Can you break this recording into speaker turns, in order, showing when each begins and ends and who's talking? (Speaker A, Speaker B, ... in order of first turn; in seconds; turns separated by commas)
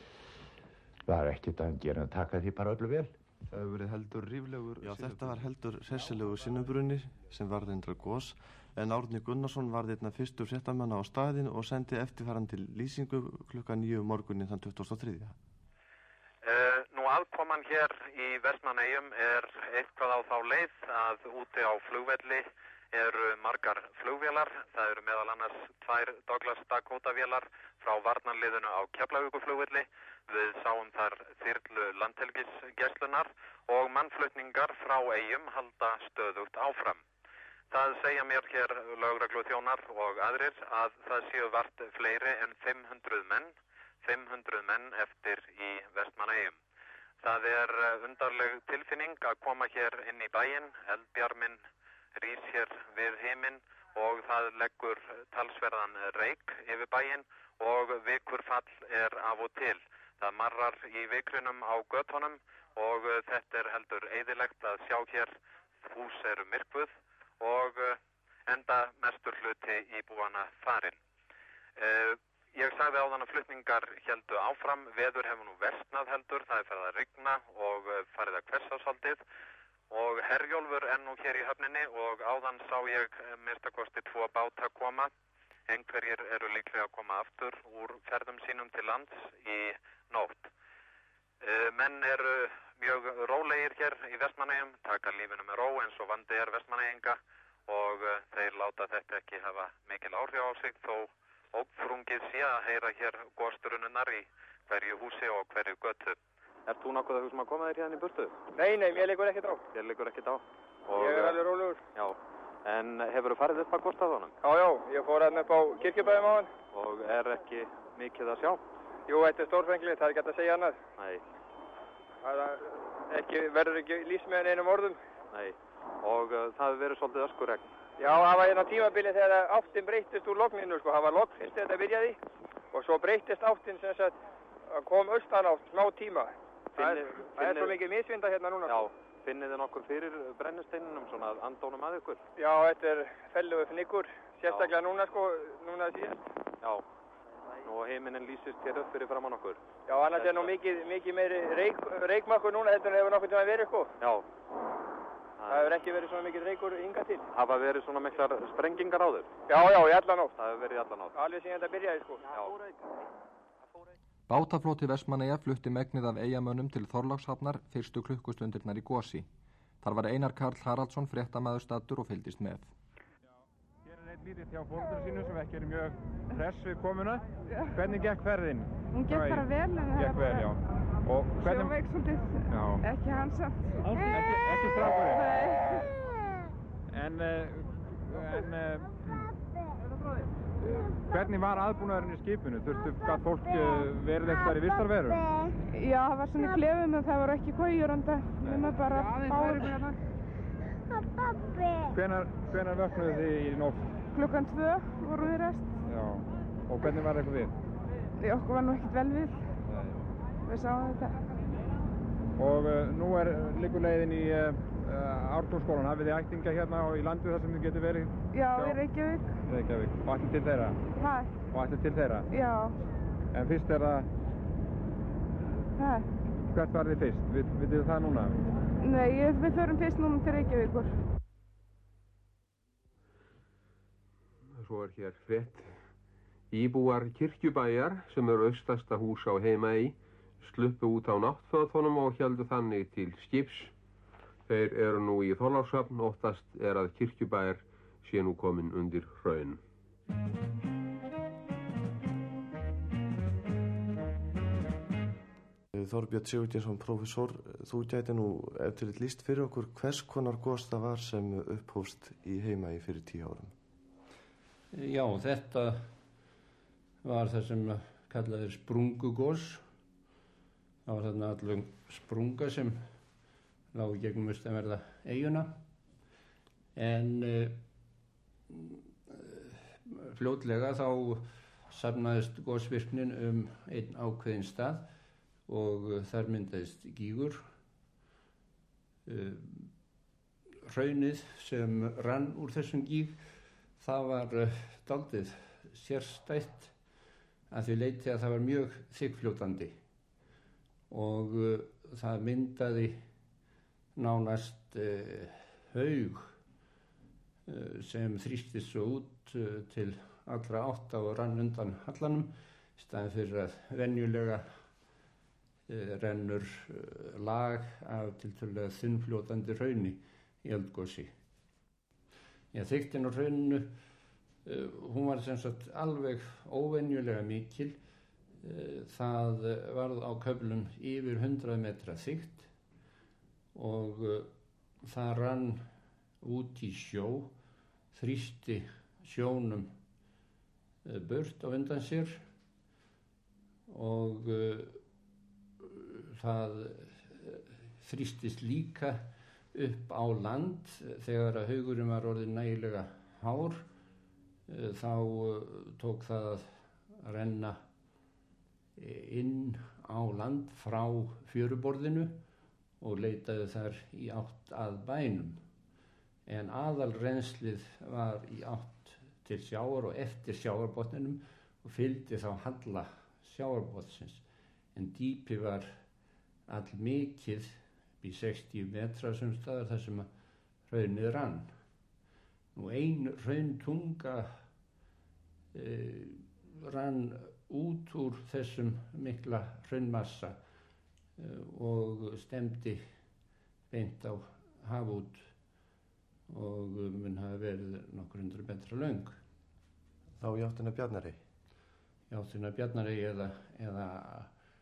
Speaker A: 1.1-3.1, Speaker B: 3.5-5.5, Speaker C: 4.8-15.3, Speaker D: 16.4-37.0, Speaker D: 37.7-46.6, Speaker D: 47.2-71.0, Speaker D: 71.8-79.2, Speaker D: 79.9-85.1, Speaker D: 85.7-90.5, Speaker D: 91.4-108.3, Speaker E: 108.5-109.6, Speaker D: 109.7-111.4, Speaker E: 110.9-111.8, Speaker D: 111.9-114.3, Speaker E: 114.4-116.5, Speaker D: 116.7-118.6, Speaker E: 119.1-120.8, Speaker D: 121.0-121.2, Speaker E: 122.2-125.0, Speaker D: 125.3-127.7, Speaker E: 128.0-132.2, Speaker E: 132.7-138.9, Speaker D: 136.7-137.8, Speaker D: 138.7-142.2, Speaker E: 142.3-146.2, Speaker D: 147.4-150.6, Speaker E: 149.9-153.9, Speaker D: 155.4-155.7, Speaker E: 155.5-157.3, Speaker D: 157.3-159.3, Speaker E: 159.5-160.3, Speaker D: 160.4-161.1, Speaker E: 161.1-162.3, Speaker D: 162.3-162.6, Speaker F: 164.3-169.3, Speaker F: 169.8-172.7, Speaker G: 173.8-181.7, Speaker H: 177.5-177.9, Speaker H: 178.9-180.5, Speaker H: 181.4-183.7, Speaker G: 182.5-182.8, Speaker G: 183.8-185.9, Speaker H: 185.1-185.6, Speaker G: 186.9-189.3, Speaker G: 190.6-195.2, Speaker H: 195.7-199.9, Speaker G: 198.4-199.9, Speaker G: 201.9-204.0, Speaker H: 204.1-205.8, Speaker G: 205.8-207.5, Speaker H: 208.2-209.5, Speaker G: 209.6-210.0, Speaker H: 210.4-211.2, Speaker G: 212.3-218.8, Speaker H: 218.3-219.4, Speaker G: 219.5-220.9, Speaker H: 220.9-221.4, Speaker G: 221.5-222.3, Speaker H: 222.3-222.8, Speaker G: 223.3-224.1, Speaker H: 225.8-226.1, Speaker G: 226.3-228.4, Speaker H: 228.8-231.0, Speaker I: 234.5-235.9, Speaker I: 236.5-243.7, Speaker I: 244.5-249.6, Speaker C: 255.7-263.5, Speaker J: 264.7-265.9, Speaker J: 267.0-269.6, Speaker J: 270.9-272.9, Speaker J: 273.7-275.6, Speaker J: 276.7-277.6, Speaker J: 278.5-284.9, Speaker J: 285.5-287.5, Speaker J: 289.1-289.7, Speaker J: 290.7-296.8, Speaker J: 297.5-299.8, Speaker J: 300.9-303.0, Speaker J: 303.9-306.4, Speaker J: 307.5-314.7, Speaker J: 315.7-321.1, Speaker J: 322.5-323.8, Speaker J: 324.4-327.8, Speaker J: 328.4-332.5, Speaker J: 333.5-335.7, Speaker J: 336.2-337.3, Speaker J: 337.9-339.7, Speaker J: 340.8-342.2, Speaker J: 343.7-344.8, Speaker J: 345.6-353.7, Speaker J: 354.5-357.6, Speaker J: 358.8-362.2, Speaker J: 362.8-365.4, Speaker J: 366.2-374.2, Speaker J: 374.7-375.8, Speaker J: 376.5-380.1, Speaker J: 380.7-381.6, Speaker J: 382.5-384.3, Speaker J: 385.5-390.4, Speaker J: 391.2-392.9, Speaker J: 393.7-395.3, Speaker J: 396.3-399.2, Speaker C: 400.2-401.2, Speaker J: 402.1-404.3